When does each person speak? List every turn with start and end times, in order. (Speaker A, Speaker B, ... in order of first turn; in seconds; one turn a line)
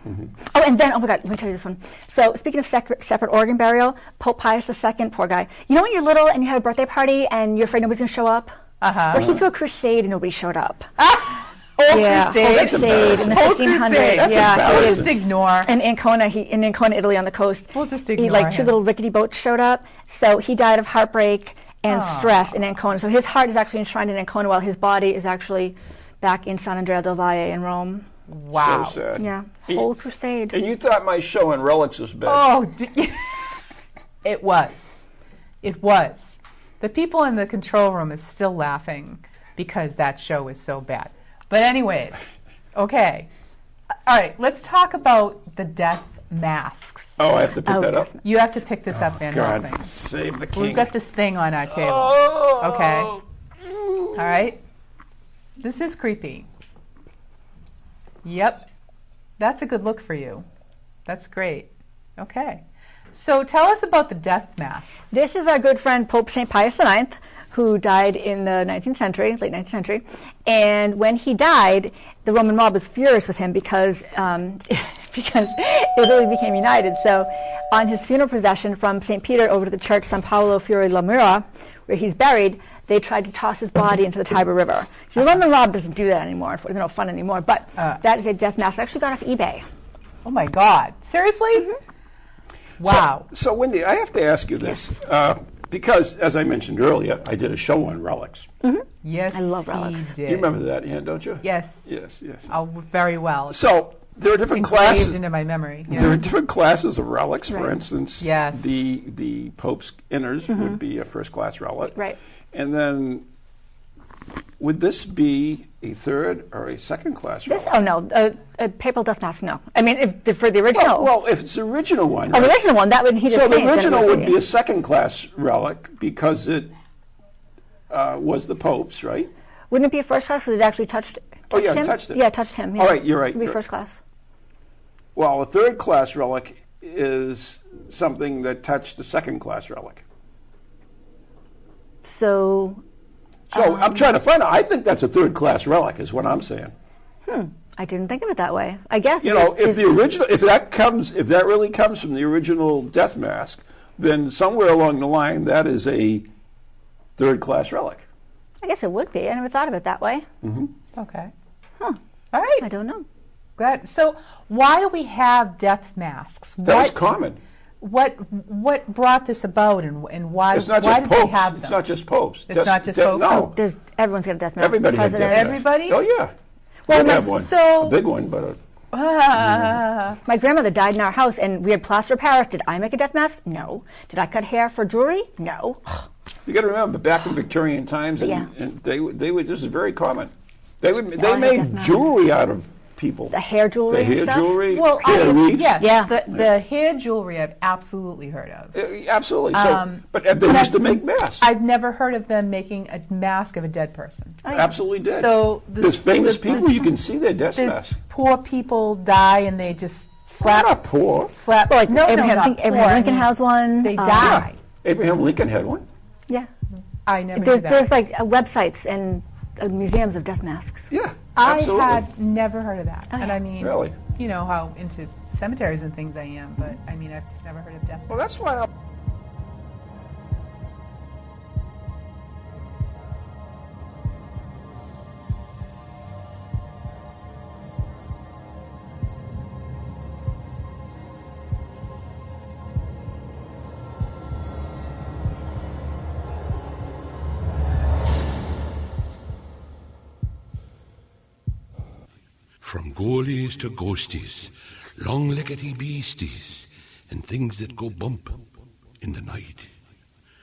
Speaker A: 0.5-8.5
Speaker B: 8.8-9.2
Speaker A: 9.1-10.9
Speaker B: 11.0-15.7
Speaker A: 11.9-28.1
Speaker C: 12.3-15.2
Speaker B: 17.7-18.8
Speaker B: 21.9-22.5
Speaker B: 28.3-29.0
Speaker C: 28.5-32.5
Speaker A: 29.2-30.6
Speaker B: 32.2-33.4
Speaker B: 34.2-35.1
Speaker B: 35.6-43.3
Speaker B: 44.0-47.2
Speaker C: 47.2-48.1
Speaker A: 47.7-48.2
Speaker B: 48.2-49.9
Speaker C: 48.9-50.9
Speaker B: 50.5-53.2
Speaker C: 51.8-54.2
Speaker B: 54.1-54.6
Speaker B: 55.6-56.5
Speaker B: 58.2-58.7
Speaker B: 59.4-60.4
Speaker B: 61.0-62.6
Speaker B: 63.1-65.2
Speaker A: 65.1-89.6
Speaker B: 90.2-91.8
Speaker B: 92.8-93.3
Speaker C: 92.8-98.5
Speaker A: 98.6-100.1
Speaker B: 99.0-100.6
Speaker C: 100.2-102.5
Speaker B: 101.4-101.9
Speaker B: 102.5-103.6
Speaker C: 103.5-105.2
Speaker B: 104.5-106.2
Speaker C: 105.9-112.0
Speaker B: 108.2-108.8
Speaker C: 112.5-113.2
Speaker C: 114.6-117.8
Speaker A: 117.5-121.1
Speaker C: 120.7-122.6
Speaker A: 122.3-124.3
Speaker C: 123.3-126.7
Speaker C: 127.9-129.3
Speaker A: 129.7-134.0
Speaker C: 131.5-132.2
Speaker C: 132.8-133.6
Speaker C: 135.1-140.0
Speaker A: 142.0-142.8
Speaker C: 143.5-146.7
Speaker A: 143.5-144.1
Speaker A: 147.3-150.0
Speaker C: 149.2-156.3
Speaker C: 157.2-158.0
Speaker A: 158.6-160.3
Speaker C: 160.4-160.7
Speaker B: 160.9-161.3
Speaker B: 162.3-162.7
Speaker A: 162.6-163.0
Speaker B: 163.6-167.0
Speaker C: 166.6-167.4
Speaker B: 167.8-171.8
Speaker C: 170.5-173.6
Speaker B: 172.5-173.4
Speaker A: 173.2-175.6
Speaker C: 174.6-176.3
Speaker B: 175.2-176.0
Speaker C: 176.9-178.6
Speaker B: 176.9-178.0
Speaker A: 176.9-177.2
Speaker B: 178.9-180.2
Speaker A: 180.2-186.0
Speaker C: 186.4-193.3
Speaker A: 188.2-188.5
Speaker A: 191.1-192.1
Speaker A: 193.3-196.1
Speaker C: 193.9-196.4
Speaker B: 194.7-198.8
Speaker C: 198.7-201.5
Speaker B: 199.5-204.4
Speaker A: 204.4-204.7
Speaker C: 204.5-208.0
Speaker B: 205.2-206.9
Speaker B: 207.5-210.8
Speaker C: 210.4-211.3
Speaker B: 211.3-214.6
Speaker A: 211.7-214.5
Speaker C: 214.2-215.9
Speaker B: 217.1-217.9
Speaker A: 217.3-220.9
Speaker C: 220.9-222.0
Speaker B: 221.3-228.1
Speaker A: 223.1-223.4
Speaker C: 223.6-224.0
Speaker C: 228.1-228.7
Speaker D: 252.6-258.4
Speaker D: 259.0-259.7